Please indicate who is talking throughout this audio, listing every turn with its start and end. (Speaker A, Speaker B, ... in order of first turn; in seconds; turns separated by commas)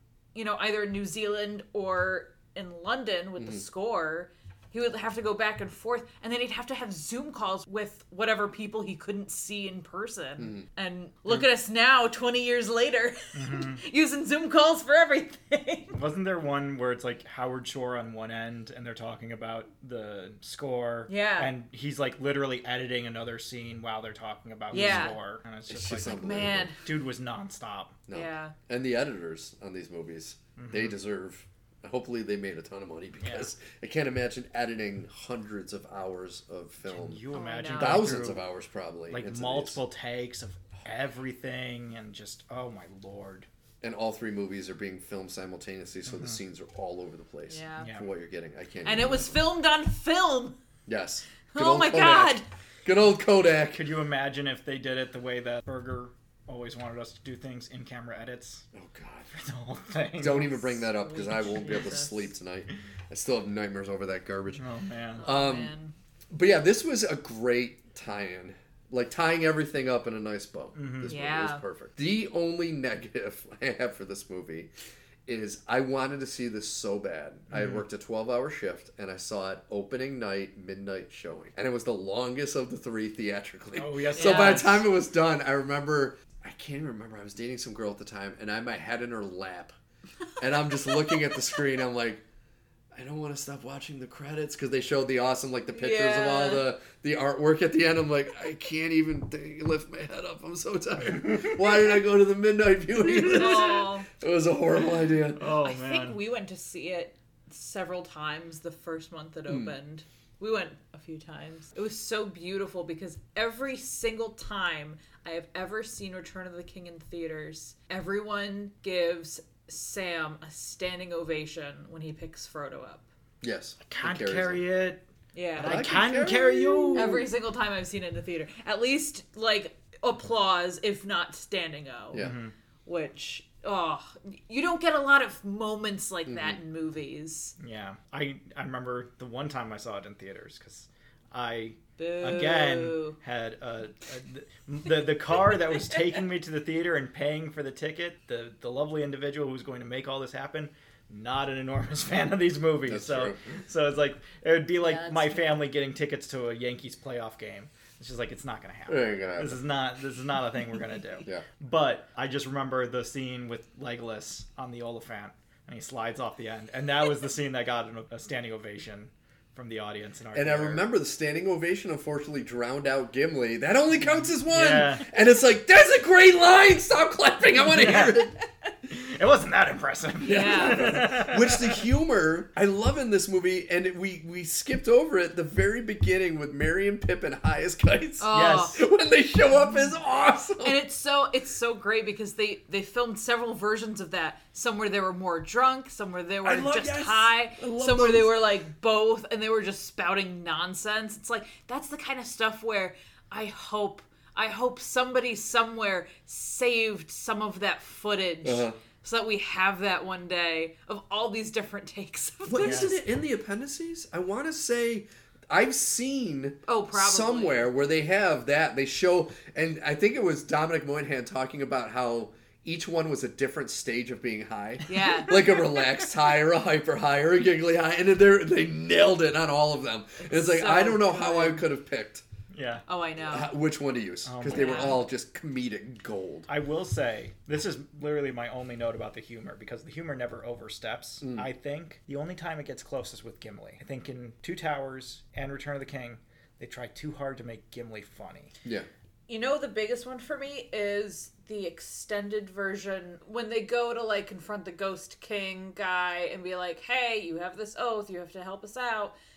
Speaker A: 0.3-16.0, Speaker B: 3.4-3.6, Speaker B: 10.4-10.7, Speaker C: 13.3-13.8, Speaker C: 15.9-28.0, Speaker A: 21.1-21.5, Speaker B: 24.7-25.1, Speaker A: 24.7-25.2, Speaker B: 25.7-26.7, Speaker A: 26.0-26.8, Speaker B: 28.1-37.2, Speaker A: 28.1-28.6, Speaker C: 30.6-31.0, Speaker C: 33.2-33.5, Speaker C: 36.9-38.4, Speaker A: 37.3-38.2, Speaker B: 37.8-39.8, Speaker C: 39.1-43.5, Speaker B: 43.8-49.4, Speaker C: 46.1-46.4, Speaker A: 47.5-47.9, Speaker C: 47.8-48.0, Speaker A: 48.9-50.6, Speaker B: 50.9-53.9, Speaker A: 51.5-52.5, Speaker C: 53.7-58.7, Speaker B: 58.7-59.3, Speaker C: 59.3-60.5, Speaker B: 60.2-64.6, Speaker A: 60.4-62.3, Speaker C: 64.5-65.3, Speaker A: 65.2-66.0, Speaker B: 65.2-65.8, Speaker B: 66.3-74.7, Speaker C: 70.8-71.2, Speaker A: 71.0-71.6, Speaker B: 75.3-89.8, Speaker C: 77.5-77.8, Speaker C: 83.7-84.8, Speaker A: 84.2-84.7, Speaker B: 90.4-92.2, Speaker A: 90.8-91.4, Speaker B: 92.9-105.4, Speaker A: 95.7-96.6, Speaker C: 101.0-102.0, Speaker A: 103.0-104.1, Speaker C: 105.4-106.2, Speaker A: 105.5-123.0, Speaker B: 109.5-109.7, Speaker B: 123.4-124.6, Speaker C: 123.8-125.0, Speaker A: 125.3-125.8, Speaker C: 125.6-127.2, Speaker B: 125.6-127.3, Speaker A: 126.9-132.3, Speaker C: 132.2-132.5, Speaker A: 132.9-137.6, Speaker B: 136.3-136.6, Speaker C: 137.6-170.9, Speaker A: 142.0-143.2, Speaker A: 145.5-146.0, Speaker B: 152.9-153.6, Speaker A: 154.8-155.6, Speaker B: 158.9-159.6, Speaker B: 170.3-178.4, Speaker C: 174.0-175.1, Speaker C: 177.6-178.2, Speaker C: 178.9-181.8, Speaker B: 180.2-190.8, Speaker A: 180.3-181.1, Speaker A: 188.2-188.8, Speaker C: 188.3-188.8, Speaker A: 190.6-213.0, Speaker B: 196.4-198.3, Speaker B: 208.4-208.8, Speaker B: 212.5-232.2, Speaker C: 212.6-212.9, Speaker A: 216.7-217.7, Speaker A: 224.9-225.9, Speaker A: 230.2-231.6, Speaker C: 232.5-232.8, Speaker A: 232.9-233.5, Speaker B: 233.2-236.5, Speaker C: 234.2-234.9, Speaker A: 234.4-235.0, Speaker C: 236.5-248.6, Speaker B: 241.2-241.5, Speaker A: 249.3-259.1